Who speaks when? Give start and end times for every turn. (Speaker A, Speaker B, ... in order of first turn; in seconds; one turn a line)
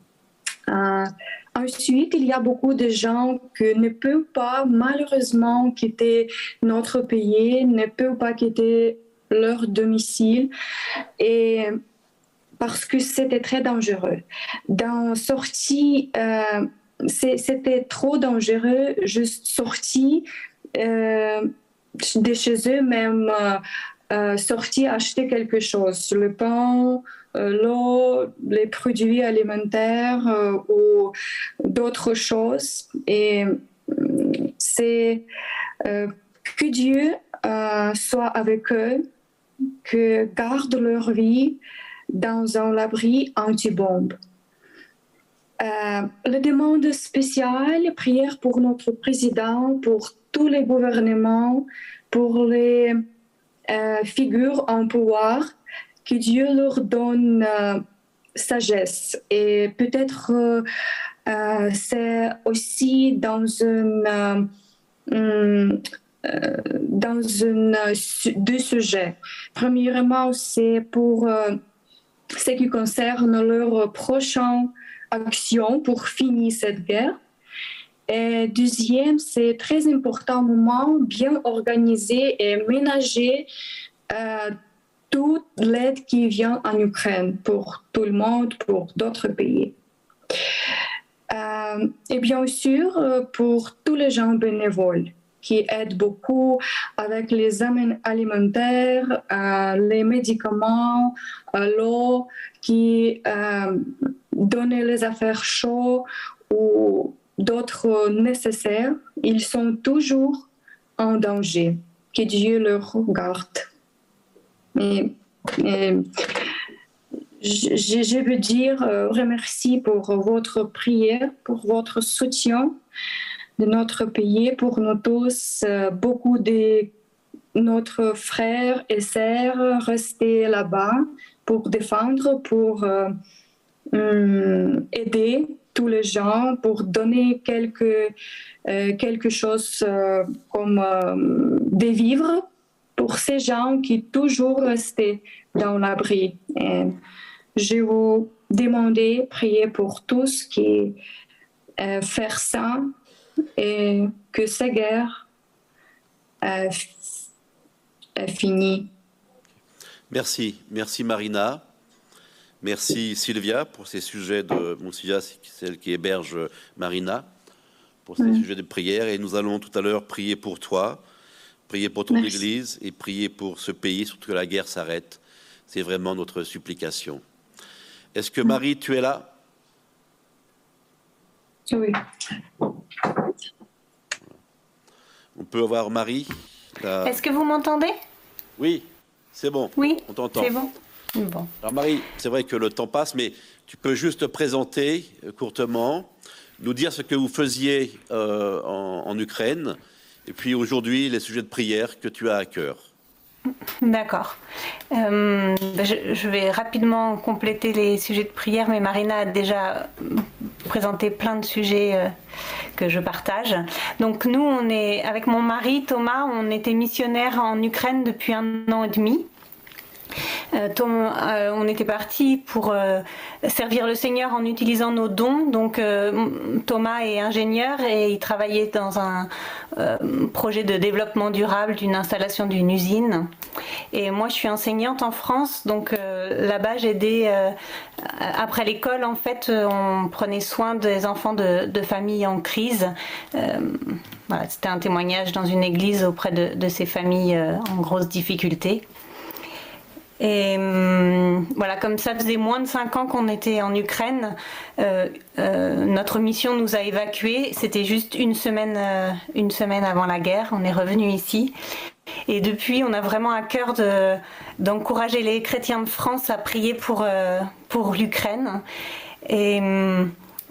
Speaker A: 0.7-10.5
Speaker A: 11.2-11.8
Speaker A: 12.6-21.5
Speaker A: 22.0-35.3
Speaker A: 35.9-39.1
Speaker A: 39.8-41.6
Speaker A: 42.1-44.2
Speaker A: 45.6-53.0
Speaker A: 53.7-55.5
Speaker A: 56.0-57.8
Speaker A: 58.4-60.7
Speaker A: 61.3-64.5
Speaker A: 65.1-71.6
Speaker A: 72.4-77.2
Speaker A: 78.1-83.5
Speaker A: 84.1-84.6
Speaker A: 85.1-89.8
Speaker A: 91.3-110.5
Speaker A: 111.0-113.7
Speaker A: 114.8-116.1
Speaker A: 117.4-122.8
Speaker A: 123.6-126.9
Speaker A: 127.5-133.2
Speaker A: 133.9-138.1
Speaker A: 138.7-142.5
Speaker A: 143.0-147.0
Speaker A: 147.6-151.0
Speaker A: 151.8-152.9
Speaker A: 153.6-155.2
Speaker A: 156.4-157.0
Speaker A: 158.2-158.9
Speaker B: 160.1-161.7
Speaker B: 162.6-167.3
Speaker B: 168.1-171.0
Speaker A: 168.2-168.4
Speaker B: 171.7-177.2
Speaker A: 172.1-172.4
Speaker B: 178.2-179.3
Speaker A: 181.7-182.0
Speaker B: 185.3-187.2
Speaker C: 187.0-188.0
Speaker B: 188.6-190.5
Speaker C: 189.8-191.5
Speaker B: 191.6-202.9
Speaker C: 203.8-204.4
Speaker C: 204.9-212.1
Speaker C: 212.8-219.3
Speaker C: 220.5-233.3
Speaker C: 233.9-248.8
Speaker C: 250.2-261.5
Speaker C: 262.3-268.6
Speaker C: 269.2-270.1